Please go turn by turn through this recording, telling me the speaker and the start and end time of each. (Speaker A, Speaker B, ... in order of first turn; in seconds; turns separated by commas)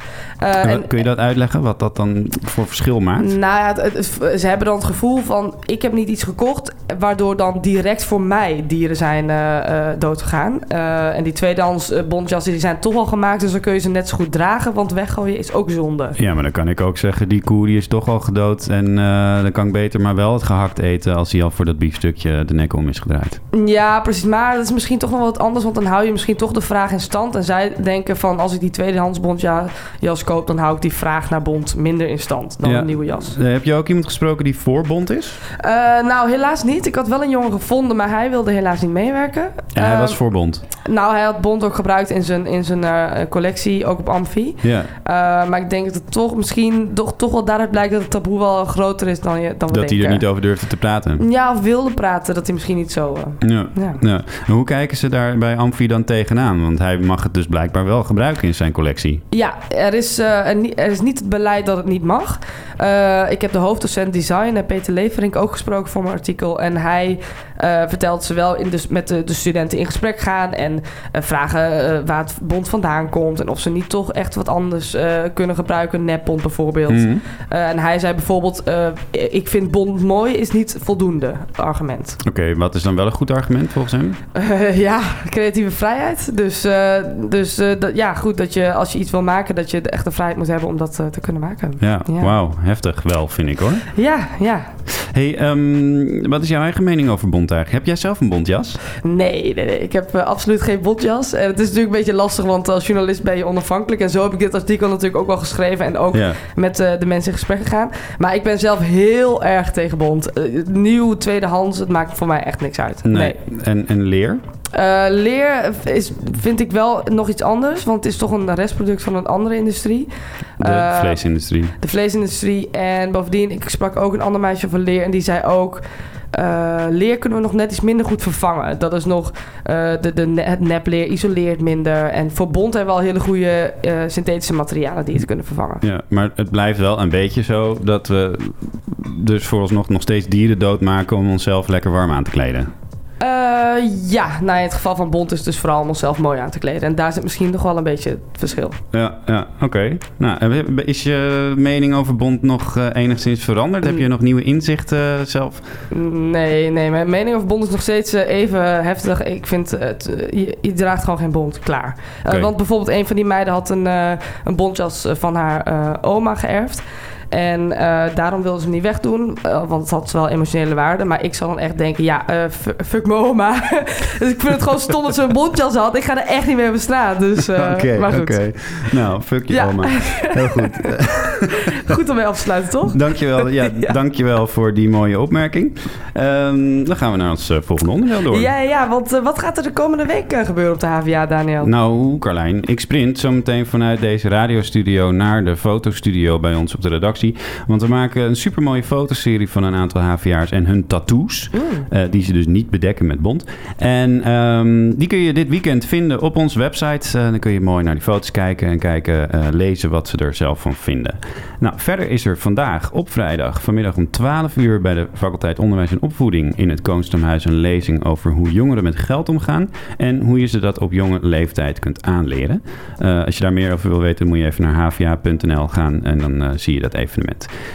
Speaker A: 0.4-1.0, Speaker B: 0.6-3.3, Speaker A: 3.2-16.2, Speaker B: 16.2-23.4, Speaker A: 23.5-33.4, Speaker B: 32.6-35.4, Speaker A: 35.6-40.2, Speaker B: 39.8-40.6, Speaker A: 40.8-50.2, Speaker B: 44.6-44.9, Speaker B: 49.7-51.2, Speaker A: 51.2-54.0, Speaker B: 53.4-59.2, Speaker A: 59.3-82.2, Speaker B: 76.9-77.2, Speaker B: 82.2-84.2, Speaker A: 84.3-92.3, Speaker B: 91.8-93.9, Speaker A: 93.9-94.7, Speaker B: 95.0-98.8, Speaker A: 99.0-113.4, Speaker B: 106.1-106.4, Speaker B: 113.0-114.4, Speaker A: 114.7-121.2, Speaker B: 120.6-121.8, Speaker A: 121.8-135.8, Speaker B: 135.8-142.7, Speaker A: 143.2-148.8, Speaker B: 148.9-155.6, Speaker A: 155.9-178.4, Speaker B: 177.5-181.7, Speaker A: 179.5-184.0, Speaker B: 182.9-188.5, Speaker A: 188.3-191.7, Speaker B: 191.6-227.5, Speaker A: 201.6-201.8